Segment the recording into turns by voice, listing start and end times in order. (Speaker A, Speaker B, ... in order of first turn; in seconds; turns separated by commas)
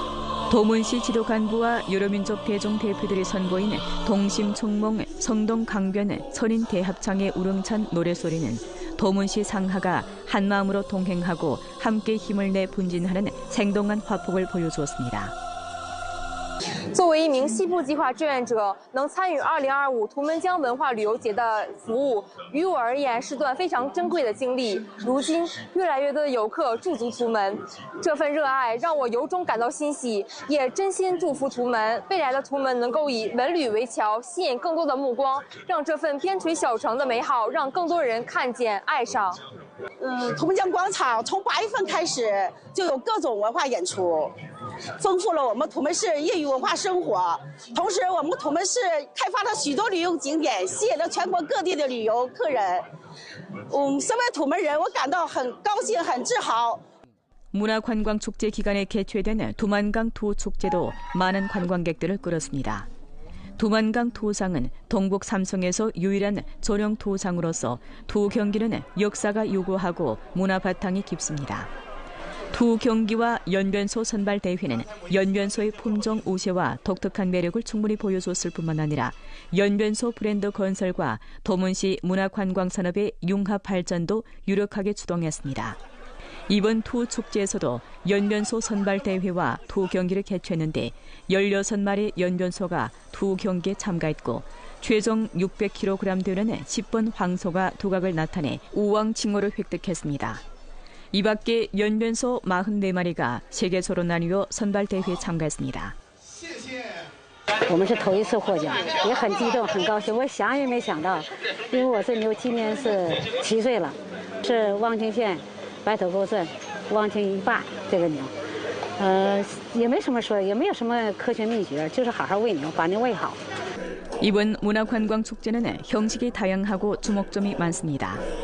Speaker A: 0.5-15.3, Speaker B: 16.9-39.4, Speaker C: 40.0-44.3, Speaker C: 45.0-52.9, Speaker C: 53.7-56.8, Speaker A: 57.5-62.9, Speaker A: 63.6-71.7, Speaker A: 72.5-85.8, Speaker A: 86.5-100.4, Speaker A: 101.1-105.9, Speaker D: 107.7-118.3, Speaker D: 119.0-123.4, Speaker A: 124.2-128.2